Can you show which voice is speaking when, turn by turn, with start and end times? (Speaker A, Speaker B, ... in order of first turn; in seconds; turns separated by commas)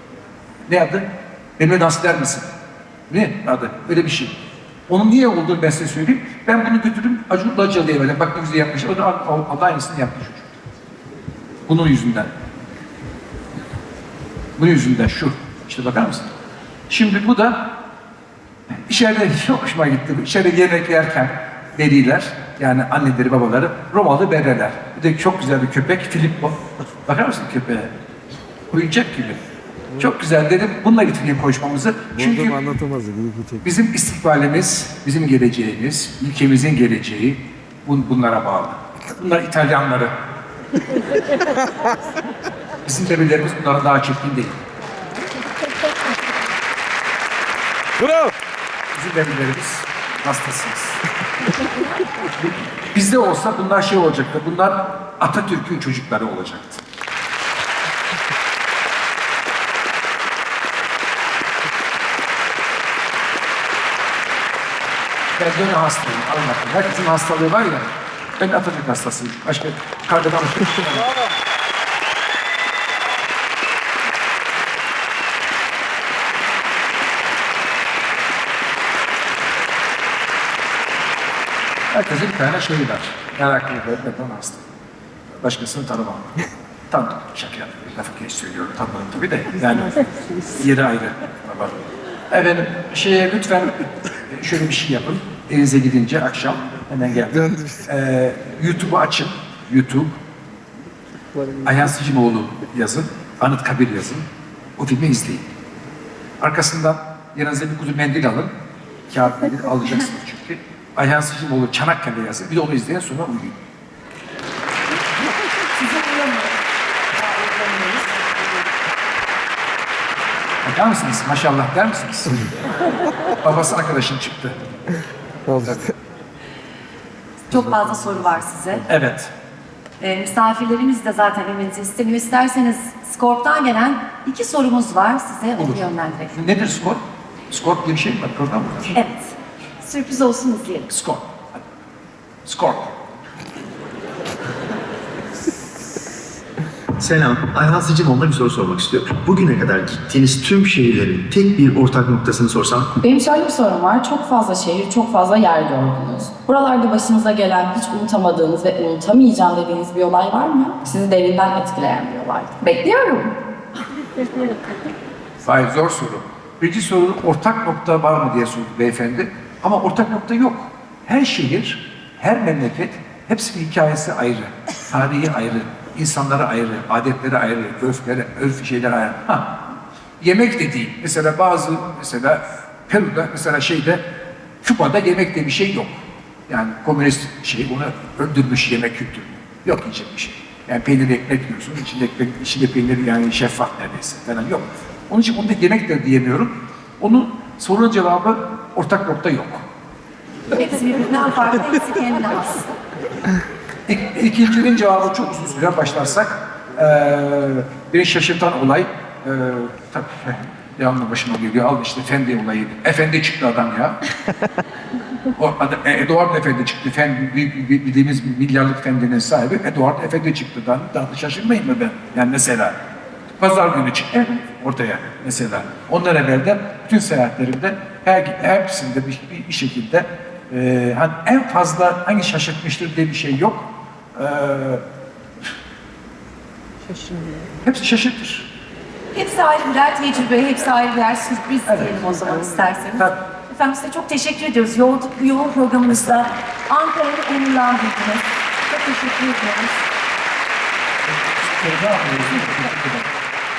Speaker A: 0.7-2.5, Speaker A: 3.1-4.4, Speaker A: 4.9-10.6, Speaker A: 11.7-12.3, Speaker A: 14.6-16.3, Speaker A: 16.9-17.8, Speaker A: 18.9-27.9, Speaker A: 28.7-29.4, Speaker A: 29.9-32.6, Speaker B: 32.2-33.7, Speaker A: 33.6-40.1, Speaker A: 42.9-44.6, Speaker A: 49.0-51.0, Speaker A: 52.9-56.8, Speaker A: 65.4-67.9, Speaker A: 68.4-71.1, Speaker A: 81.9-84.6, Speaker A: 85.4-86.4, Speaker A: 86.9-91.8, Speaker A: 92.3-100.2, Speaker A: 101.6-104.3, Speaker A: 104.8-105.5, Speaker A: 106.4-108.5, Speaker A: 109.1-113.6, Speaker C: 115.7-116.5, Speaker C: 117.2-118.3, Speaker A: 120.6-122.5, Speaker A: 123.4-124.6, Speaker B: 125.5-125.9, Speaker C: 127.5-128.9, Speaker A: 128.9-129.3, Speaker C: 130.0-136.4, Speaker A: 136.3-139.0, Speaker C: 138.9-140.9, Speaker A: 140.9-141.4, Speaker A: 142.5-143.0, Speaker D: 147.0-152.9, Speaker E: 153.0-163.4, Speaker A: 165.4-184.0, Speaker A: 184.6-199.6, Speaker C: 200.5-202.7, Speaker A: 203.9-214.0, Speaker A: 215.3-222.8, Speaker A: 223.4-234.8, Speaker A: 237.6-238.5, Speaker C: 239.1-249.8, Speaker A: 241.7-241.9, Speaker A: 251.3-253.1